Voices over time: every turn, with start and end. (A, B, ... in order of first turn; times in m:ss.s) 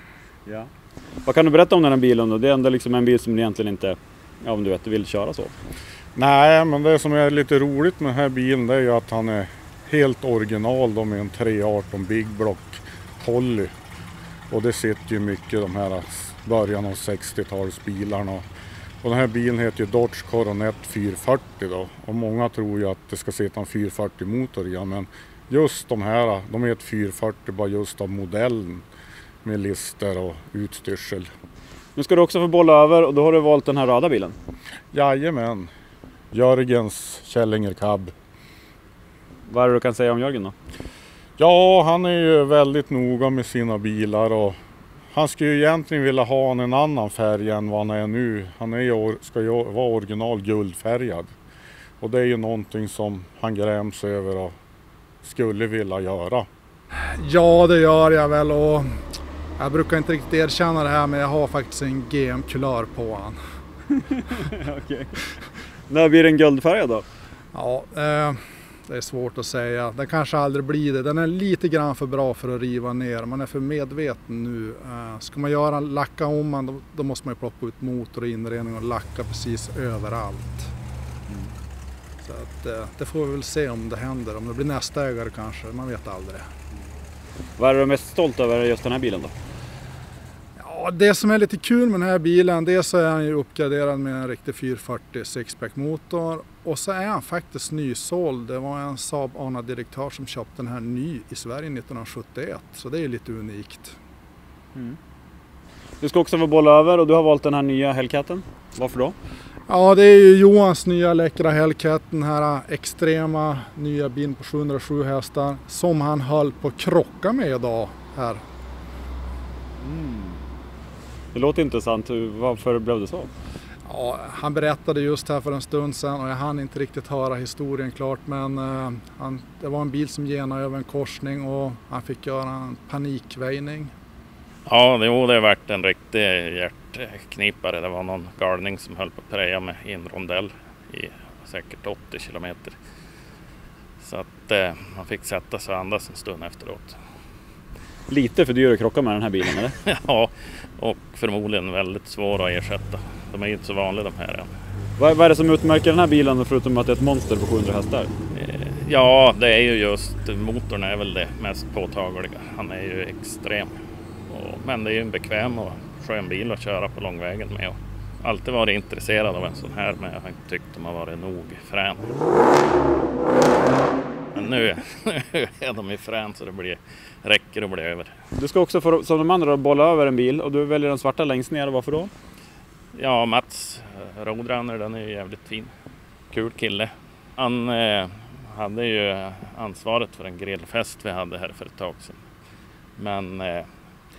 0:01.3-0:05.6 A
0:06.2-0:13.7 B
0:14.5-0:18.4 B
0:19.0-0:28.8 B
0:29.4-0:31.3 B
0:32.0-0:34.4 A
0:34.9-0:35.7 B
0:36.3-0:38.1 B
0:39.5-0:40.5 A
0:41.4-0:44.6 B
0:45.1-0:51.3 B
0:52.0-0:54.6 B
0:55.2-0:56.5 B
0:57.2-0:58.9 C
0:59.6-1:03.4 C
1:04.1-1:05.2 A
1:05.9-1:07.0 A
1:07.5-1:20.7 C
1:22.2-1:26.5 C
1:27.6-1:29.3 A
1:30.6-1:44.0 C
1:46.0-1:49.2 A
1:49.7-1:58.4 C
1:59.8-2:00.4 A
2:01.3-2:03.3 A
2:03.9-2:13.9 C
2:14.7-2:22.8 D
2:24.0-2:27.0 D
2:28.1-2:29.8 A
2:29.7-2:34.5 D
2:35.0-2:38.1 A
2:38.3-2:43.7 D
2:44.3-2:52.1 D
2:54.3-2:58.1 D
2:58.3-3:02.1 A
3:02.9-3:05.7 D
3:06.3-3:12.2 D
3:13.0-3:13.7 D